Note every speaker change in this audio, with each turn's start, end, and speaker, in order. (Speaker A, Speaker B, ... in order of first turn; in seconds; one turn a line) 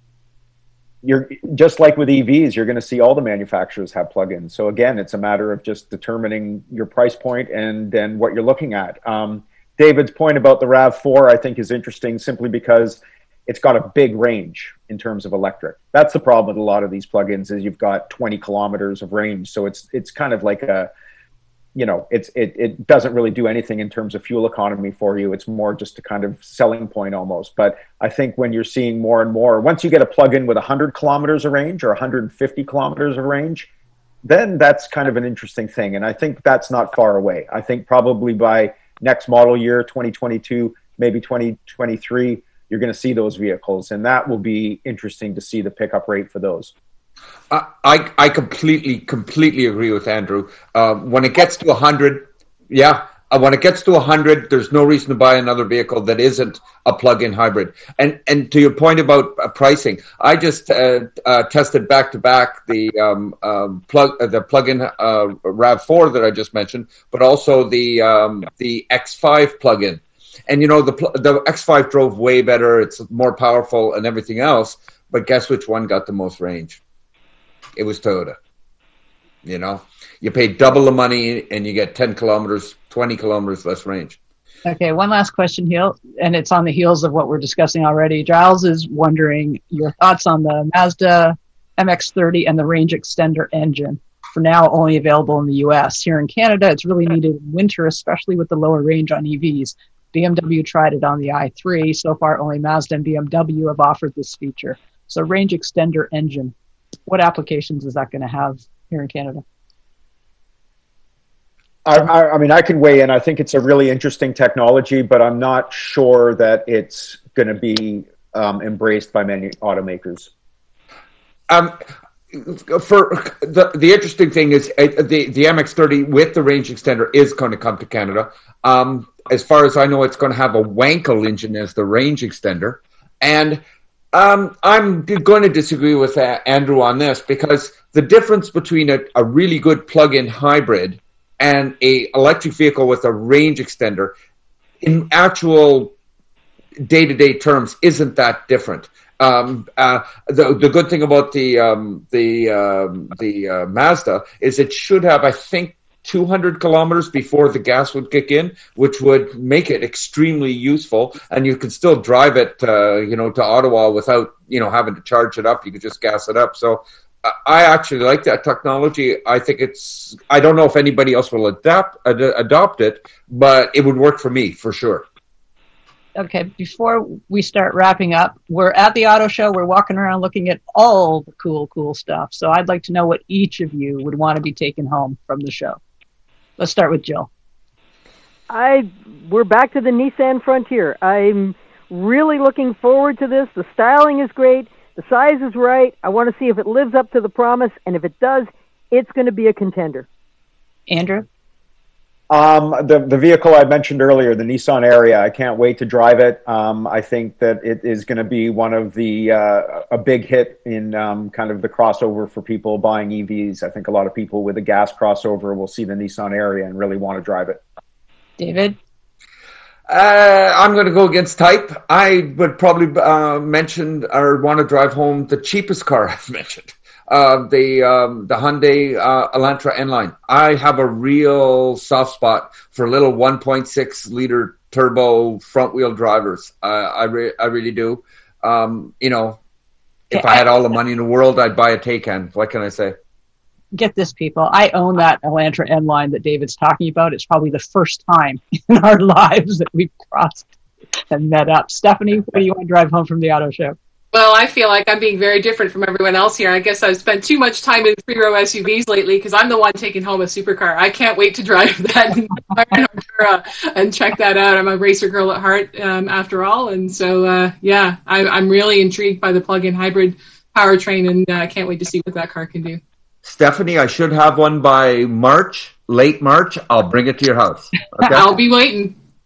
Speaker A: 1.0-20.9
Speaker A: 21.7-33.7
Speaker A: 34.2-46.7
Speaker B: 47.5-76.8
Speaker B: 77.8-78.4
Speaker B: 79.4-84.2
Speaker C: 84.6-106.5
Speaker C: 107.1-109.4
Speaker A: 111.8-120.3
Speaker B: 121.5-133.6
Speaker B: 134.1-144.2
Speaker B: 144.8-145.9
Speaker B: 146.8-175.1
Speaker C: 176.2-185.8
Speaker C: 186.6-187.3
Speaker D: 188.5-200.1
Speaker C: 200.9-201.3
Speaker A: 202.3-217.6
Speaker C: 218.4-218.8
Speaker B: 219.9-239.4
Speaker C: 240.1-240.4
Speaker B: 240.1-242.9
Speaker C: 243.7-250.5
Speaker C: 251.1-253.8
Speaker E: 254.1-272.8
Speaker B: 273.2-278.3
Speaker E: 278.0-279.0